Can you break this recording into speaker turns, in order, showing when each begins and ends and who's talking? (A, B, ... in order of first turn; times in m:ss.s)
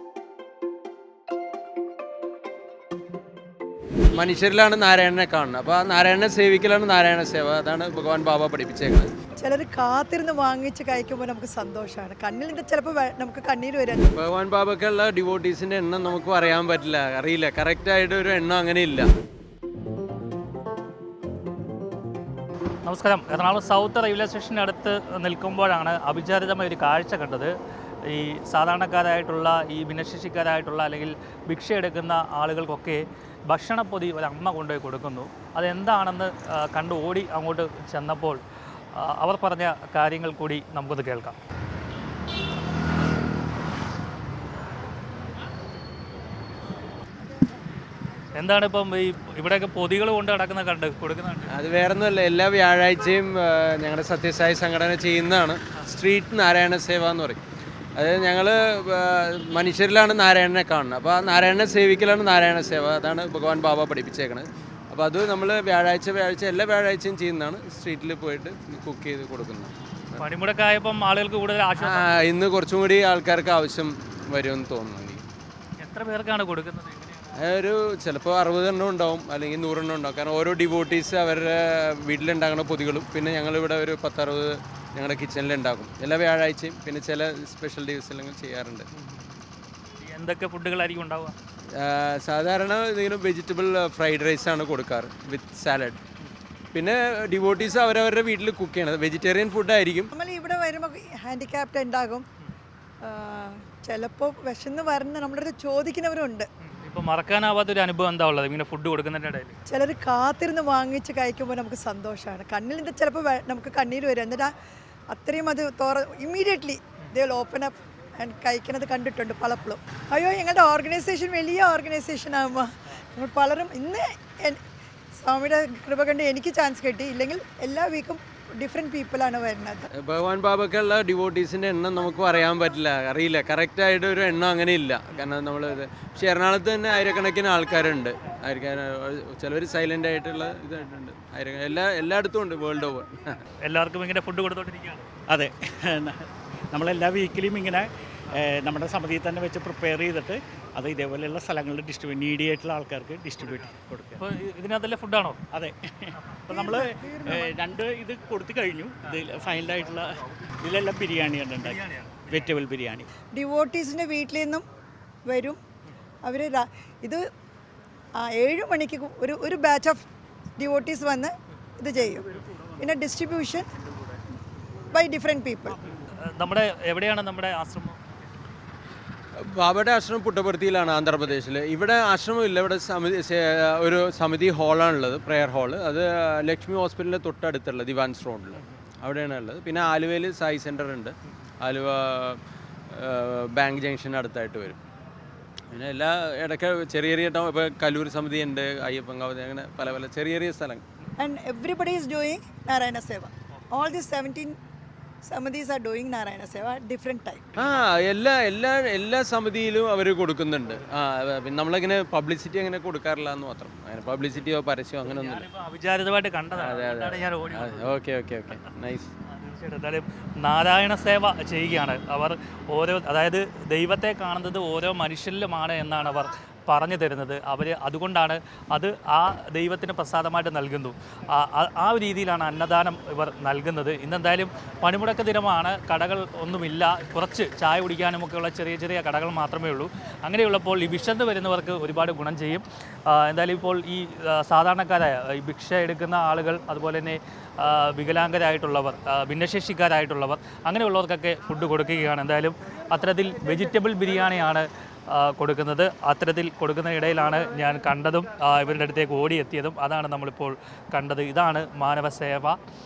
0:04.1-0:09.1 A
0:09.4-0:14.2 B
0:14.1-0:19.1 A
0:22.8-0:27.5 C
0:28.0-0:38.4 C
0:39.0-0:41.4 C
0:48.3-0:51.5 C
0:51.5-0:57.4 A
0:58.0-1:10.2 A
1:10.2-1:12.1 C
1:11.8-1:15.2 A
1:15.8-1:17.3 C
1:17.4-1:28.8 A
1:30.0-1:31.3 C
1:31.7-1:36.0 A
1:36.7-1:40.1 A
1:40.1-1:42.2 B
1:43.0-1:46.4 B
1:46.7-1:49.5 C
1:49.7-1:54.5 B
1:55.1-2:04.6 B
2:05.2-2:09.9 B
2:09.9-2:23.4 A
2:23.6-2:25.1 C
2:25.3-2:34.2 D
2:34.2-2:35.4 C
2:35.5-2:43.1 D
2:36.5-2:37.4 B
2:41.6-2:42.4 C
2:43.3-2:44.6 B
2:45.3-2:45.6 B
2:46.2-2:47.2 B
2:48.2-2:50.0 B
2:50.6-2:53.6 B
2:54.9-2:55.8 B
2:56.2-2:58.0 C
2:59.4-3:12.4 A
3:12.9-3:14.8 A
3:15.7-3:20.8 A
3:21.2-3:24.5 B
3:25.2-3:27.5 B
3:27.6-3:35.5 A
3:35.1-3:37.9 C
3:36.6-3:39.1 A
3:39.3-4:22.6 C